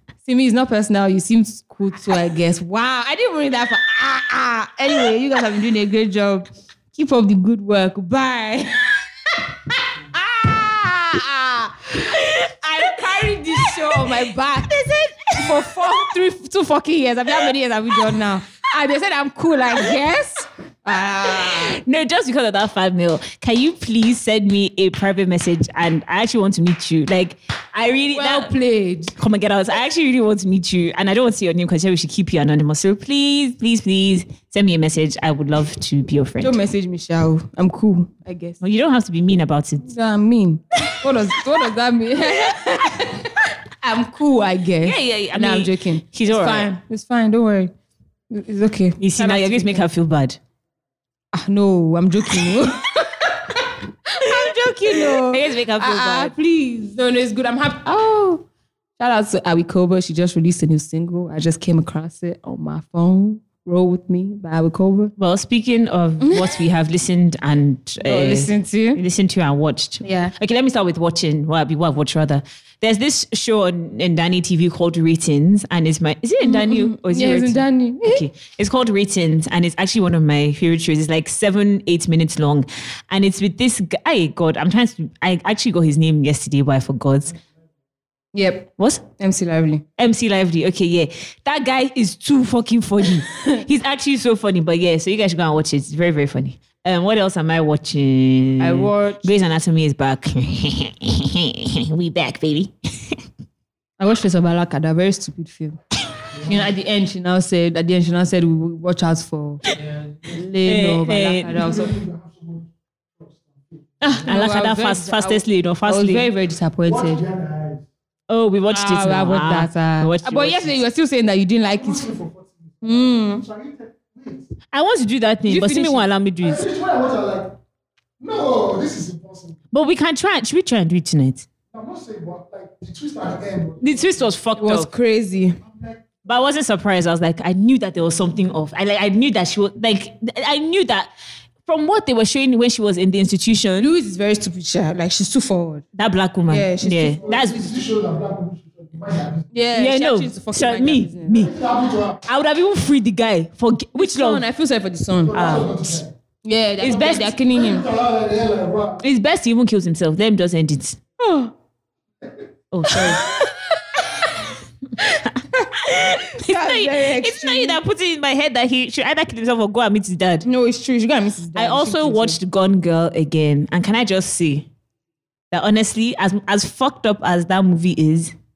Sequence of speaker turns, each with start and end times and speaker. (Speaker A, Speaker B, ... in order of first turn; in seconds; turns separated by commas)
Speaker A: 0.2-21.8, Speaker B: 13.5-14.0, Speaker B: 21.2-28.5, Speaker A: 28.1-29.1, Speaker B: 29.2-36.5, Speaker A: 36.4-38.6, Speaker B: 38.6-39.9, Speaker A: 39.8-47.7, Speaker B: 42.4-42.8, Speaker B: 44.8-46.7, Speaker A: 48.3-49.8, Speaker B: 49.0-50.4, Speaker A: 51.3-58.5, Speaker B: 54.2-56.3, Speaker A: 59.0-65.1, Speaker B: 65.2-87.4, Speaker A: 66.2-66.6, Speaker A: 68.0-69.0, Speaker A: 70.0-70.3, Speaker A: 76.4-78.3, Speaker A: 88.3-89.8, Speaker B: 90.0-103.2, Speaker A: 93.3-93.6, Speaker A: 98.6-99.3, Speaker A: 104.0-105.8, Speaker A: 106.4-109.6, Speaker A: 110.3-111.9, Speaker B: 110.7-111.6, Speaker C: 111.5-114.3, Speaker B: 114.0-116.3, Speaker A: 114.1-117.2, Speaker C: 116.9-117.9, Speaker B: 118.3-120.8, Speaker A: 118.7-122.1, Speaker C: 121.6-124.5, Speaker A: 122.8-123.4, Speaker B: 124.7-126.6, Speaker A: 125.5-126.1, Speaker C: 126.4-127.6, Speaker C: 128.2-129.6, Speaker B: 129.7-131.5, Speaker C: 131.7-134.3, Speaker B: 133.8-134.9, Speaker A: 134.6-135.6, Speaker C: 135.6-136.0, Speaker B: 136.2-141.1, Speaker B: 141.7-143.9, Speaker A: 143.8-145.8, Speaker B: 145.9-147.7, Speaker A: 146.5-147.2, Speaker C: 147.2-149.5, Speaker A: 149.5-151.5, Speaker B: 149.7-151.5, Speaker C: 151.3-152.2, Speaker B: 152.2-154.4, Speaker A: 154.0-157.9, Speaker C: 155.2-156.1, Speaker C: 156.8-159.0, Speaker B: 156.8-157.2, Speaker B: 159.0-161.0, Speaker A: 161.2-161.5, Speaker B: 162.7-163.4, Speaker A: 162.9-163.5, Speaker A: 164.0-164.3, Speaker B: 164.0-164.3, Speaker B: 165.0-170.5, Speaker A: 166.4-167.8, Speaker A: 170.4-172.4, Speaker B: 171.6-174.7, Speaker B: 175.5-178.3